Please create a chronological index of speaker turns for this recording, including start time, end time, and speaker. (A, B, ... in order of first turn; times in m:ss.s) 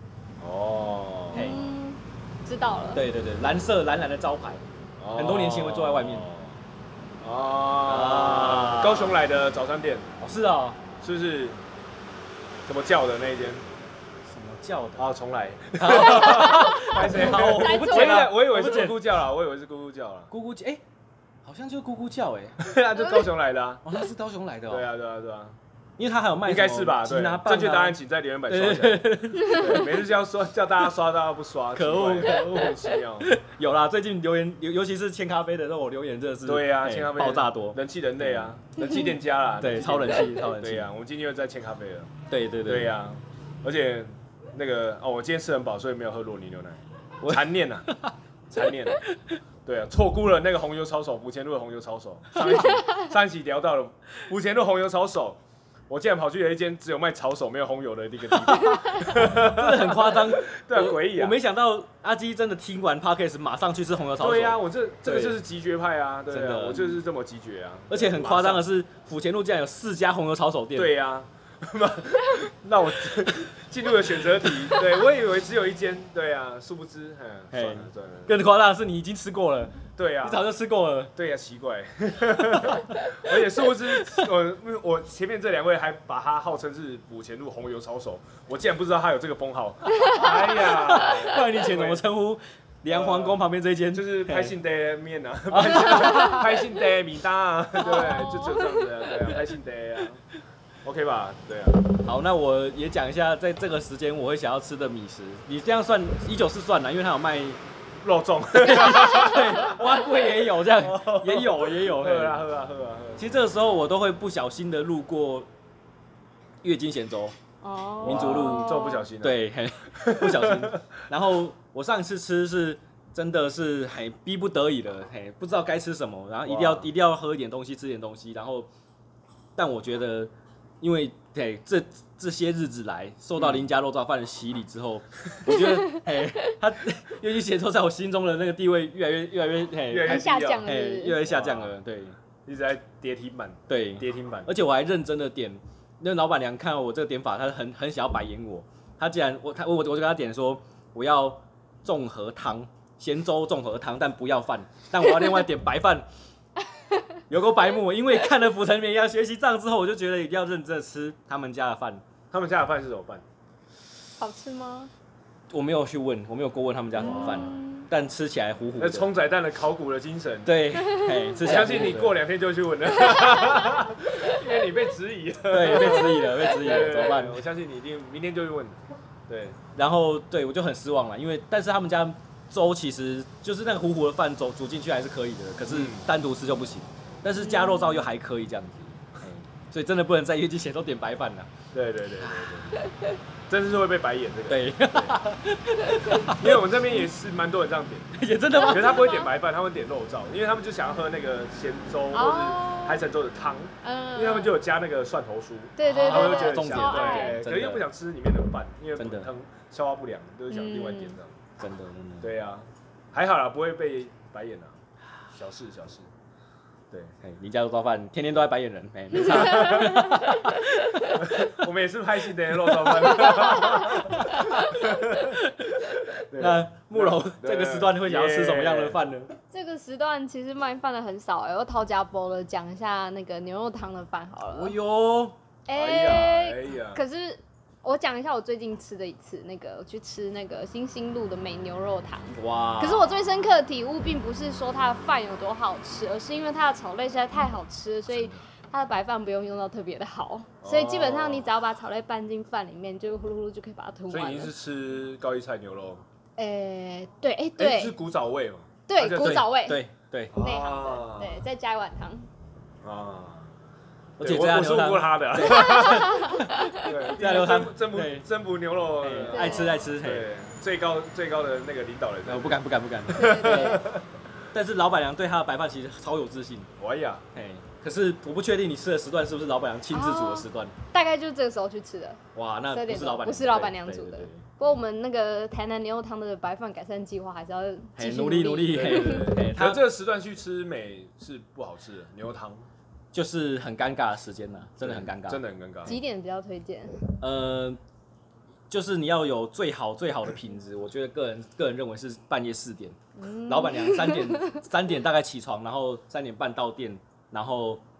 0:00.4-0:01.6 A
0:01.3-0:01.6 B
0:01.3-0:03.0 C
0:02.9-0:04.6 B
0:05.0-0:06.6 A
0:05.1-0:06.3 B
0:07.2-0:10.1 A
0:07.8-0:09.2 B
0:10.2-0:10.8 B
0:11.0-0:11.6 A
0:12.6-0:13.6 A
0:14.2-0:15.1 B
0:15.0-0:20.3 A
0:15.8-0:19.0 B
0:16.5-0:18.3 C
0:20.3-0:20.8 B
0:21.4-0:22.7 B
0:22.6-0:23.8 A
0:23.8-0:24.9 B
0:24.7-0:25.6 A
0:26.0-0:29.9 B
0:26.4-0:33.3 A
0:31.7-0:38.5 B
0:36.4-0:42.1 A
0:39.6-0:40.9 B
0:42.3-0:42.9 B
0:42.6-0:47.9 A
0:47.2-0:48.1 B
0:48.5-0:49.0 A
0:49.6-1:01.4 A
0:59.0-1:05.4 B
1:04.2-1:08.7 A
1:06.3-1:06.8 B
1:07.9-1:10.9 B
1:10.7-1:18.4 A
1:17.5-1:21.1 B
1:20.0-1:20.4 A
1:21.2-1:32.0 A
1:22.5-1:23.1 B
1:30.2-1:34.5 B
1:32.9-1:33.4 A
1:33.9-1:40.2 A
1:35.5-1:36.5 B
1:37.8-1:38.8 C
1:40.8-1:41.8 A
1:42.0-1:47.6 B
1:48.0-1:49.9 A
1:48.5-1:52.4 B
1:50.6-1:53.3 A
1:53.2-1:55.5 B
1:56.6-1:57.4 B
1:57.6-1:59.1 C
1:58.0-1:59.4 A
1:58.0-2:08.7 B
1:59.9-2:00.8 A
2:06.4-2:06.9 A
2:09.6-2:22.2 B
2:13.4-2:13.7 A
2:19.9-2:20.7 A
2:20.0-2:21.2 C
2:21.2-2:21.8 A
2:22.4-2:24.5 A
2:23.7-2:36.1 B
2:37.3-2:42.0 B
2:42.3-2:43.2 A
2:44.2-2:44.9 C
2:45.5-2:49.1 B
2:47.0-2:47.9 C
2:47.0-2:47.5 A
2:48.8-2:50.6 A
2:50.4-2:52.2 B
2:50.9-2:51.3 C
2:51.4-2:59.6 A
2:55.5-2:57.4 B
2:59.7-3:11.5 B
3:05.6-3:06.0 A
3:07.4-3:08.0 C
3:11.7-3:12.8 A
3:12.2-3:12.5 B
3:13.5-3:15.2 A
3:14.5-3:16.6 B
3:16.3-3:18.1 A
3:18.1-3:19.1 B
3:18.5-3:19.3 C
3:18.7-3:31.4 A
3:22.1-3:23.0 C
3:23.8-3:24.6 C
3:25.8-3:27.4 C
3:25.8-3:27.8 B
3:29.0-3:29.3 B
3:30.5-3:31.2 C
3:31.6-3:32.3 B
3:32.2-3:34.8 A
3:35.3-3:36.1 A
3:37.2-3:41.6 B
3:39.2-3:40.0 A
3:39.7-3:40.2 C
3:41.2-3:45.4 A
3:42.7-3:49.3 B
3:43.3-3:43.8 C
3:46.1-3:49.0 A
3:49.5-3:54.7 C
3:54.5-3:55.4 B
3:55.7-4:14.5 C
3:55.7-3:57.0 A
4:02.3-4:03.2 B
4:10.6-4:11.5 A
4:14.1-4:16.0 A
4:16.4-4:18.0 C
4:17.6-4:19.5 A
4:18.9-4:19.8 C
4:19.1-4:20.4 B
4:20.3-4:21.4 A
4:20.4-4:22.3 C
4:22.8-4:23.5 A
4:24.2-4:28.2 B
4:24.2-4:26.2 A
4:25.5-4:27.0 C
4:26.8-4:34.0 A
4:29.0-4:30.3 B
4:29.3-4:29.8 C
4:32.3-4:33.9 B
4:33.1-4:33.8 C
4:34.5-4:36.7 B
4:36.8-4:37.2 A
4:37.3-4:40.7 B
4:39.9-4:49.4 C
4:42.3-4:44.6 B
4:48.0-4:49.8 B
4:48.7-4:52.7 A
4:53.1-4:55.4 B
4:54.8-4:56.0 A
4:55.8-4:57.0 C
4:57.2-4:57.8 B
4:58.7-5:07.8 B
5:03.2-5:04.6 C